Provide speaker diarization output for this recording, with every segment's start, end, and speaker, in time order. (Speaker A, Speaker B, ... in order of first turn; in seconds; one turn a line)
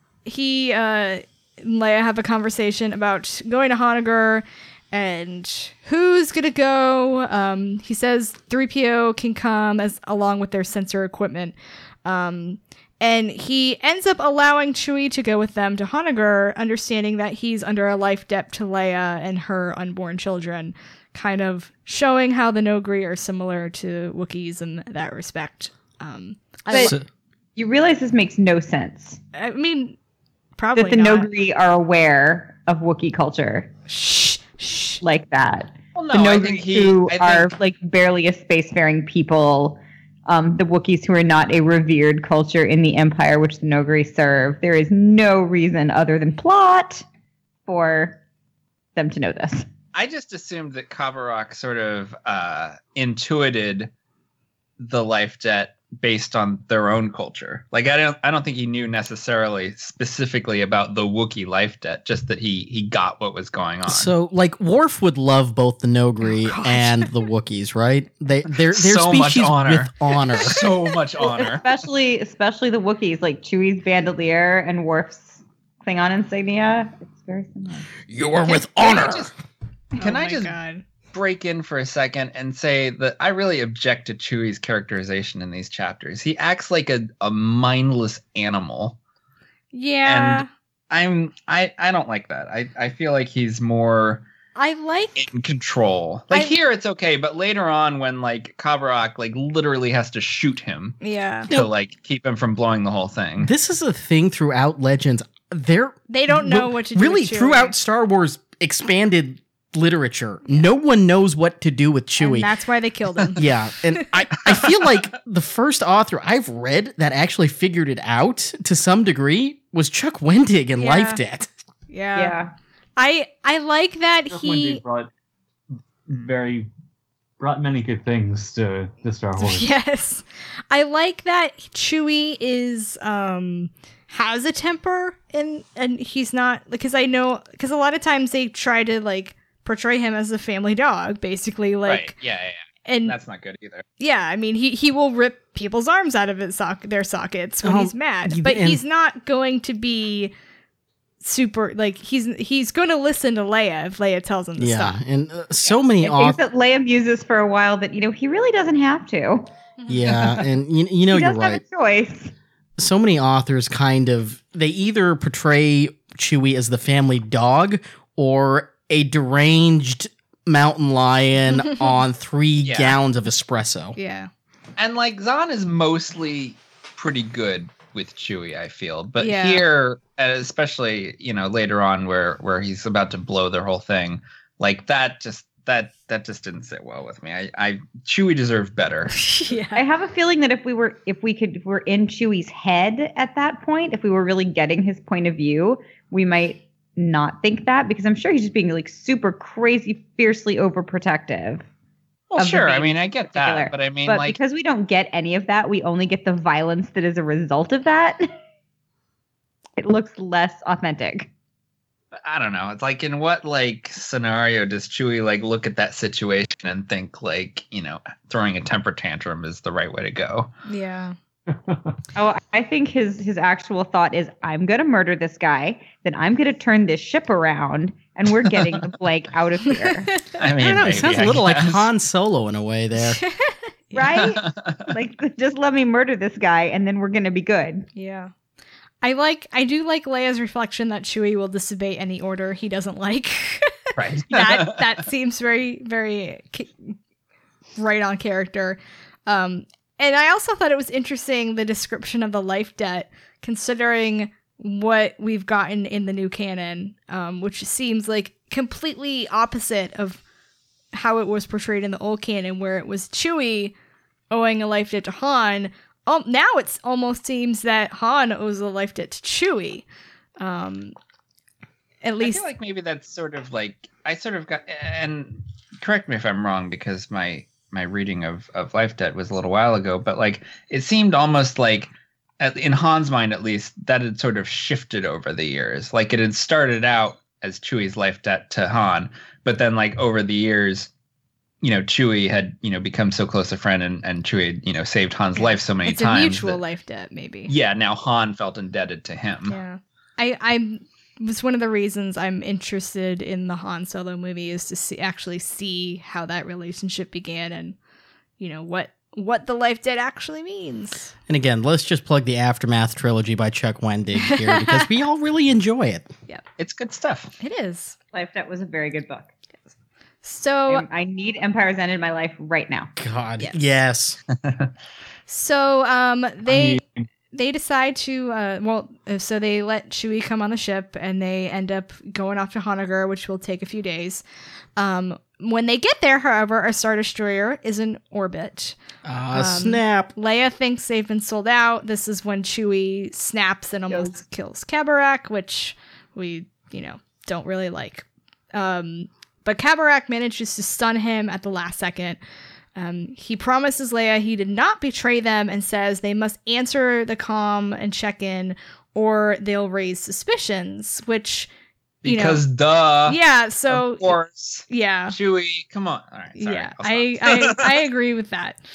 Speaker A: 0.2-26.9
Speaker B: 26.7-26.9
Speaker B: 27.6-29.2
Speaker A: 29.3-30.0
Speaker A: 30.6-31.3
Speaker B: 30.8-33.7
Speaker A: 33.9-35.0
Speaker B: 35.0-47.0
Speaker C: 36.0-37.5
Speaker B: 47.7-48.2
Speaker B: 49.0-49.7
Speaker C: 49.9-53.9
Speaker C: 54.8-64.1
Speaker D: 63.9-70.7
Speaker A: 66.5-67.1
Speaker C: 68.5-71.6
Speaker B: 71.4-77.9
Speaker D: 78.1-79.3
Speaker C: 78.5-79.3
Speaker C: 80.0-80.5
Speaker A: 80.0-80.8
Speaker C: 81.1-89.0
Speaker A: 89.7-90.5
Speaker C: 90.0-94.2
Speaker A: 94.5-95.3
Speaker C: 95.2-103.5
Speaker A: 96.3-96.5
Speaker A: 101.0-101.5
Speaker D: 103.4-112.5
Speaker A: 106.1-107.7
Speaker A: 112.2-113.4
Speaker D: 113.3-121.5
Speaker A: 120.8-121.2
Speaker A: 121.9-122.4
Speaker B: 122.1-122.5
Speaker A: 123.0-124.8
Speaker E: 124.3-125.1
Speaker E: 126.1-126.7
Speaker E: 127.4-129.7
Speaker A: 129.4-142.1
Speaker C: 141.8-143.8
Speaker A: 142.8-143.2
Speaker A: 144.0-150.3
Speaker D: 147.6-148.8
Speaker A: 151.2-155.0
Speaker D: 154.6-156.4
Speaker B: 156.0-159.5
Speaker D: 159.9-161.6
Speaker B: 161.1-162.3
Speaker D: 162.8-173.9
Speaker C: 172.6-172.9
Speaker A: 173.9-174.3
Speaker C: 174.8-189.2
Speaker A: 179.2-179.7
Speaker A: 189.1-189.8
Speaker B: 189.7-201.6
Speaker C: 202.3-204.4
Speaker B: 202.4-208.3
Speaker B: 209.8-211.3
Speaker C: 212.2-220.5
Speaker A: 220.7-221.1
Speaker E: 221.5-221.8
Speaker B: 222.1-230.1
Speaker A: 229.8-230.4
Speaker C: 230.3-231.9
Speaker D: 230.6-233.2
Speaker A: 233.0-234.2
Speaker B: 233.9-237.9
Speaker C: 234.1-234.9
Speaker A: 237.9-238.3
Speaker A: 239.0-246.9
Speaker C: 244.0-245.0
Speaker A: 247.8-260.2
Speaker A: 260.9-263.7
Speaker A: 264.3-269.9
Speaker A: 270.4-270.9
Speaker A: 272.0-272.4
Speaker C: 272.2-290.9
Speaker C: 291.6-296.6
Speaker A: 295.4-297.5
Speaker C: 297.5-299.6
Speaker A: 299.5-307.8
Speaker A: 308.4-311.1
Speaker D: 311.3-316.1
Speaker A: 314.2-314.9
Speaker C: 316.6-317.4
Speaker A: 317.4-317.9
Speaker B: 318.1-319.3
Speaker A: 320.2-320.8
Speaker B: 320.7-322.9
Speaker D: 323.0-324.2
Speaker C: 324.4-324.7
Speaker A: 325.3-326.8
Speaker E: 326.4-327.0
Speaker A: 327.3-334.2
Speaker A: 334.8-338.8
Speaker D: 339.0-340.1
Speaker A: 339.3-352.2
Speaker A: 352.8-361.5
Speaker C: 362.0-363.2
Speaker A: 362.0-362.4
Speaker A: 363.1-364.2
Speaker C: 363.7-367.8
Speaker A: 364.7-365.1
Speaker A: 366.4-368.6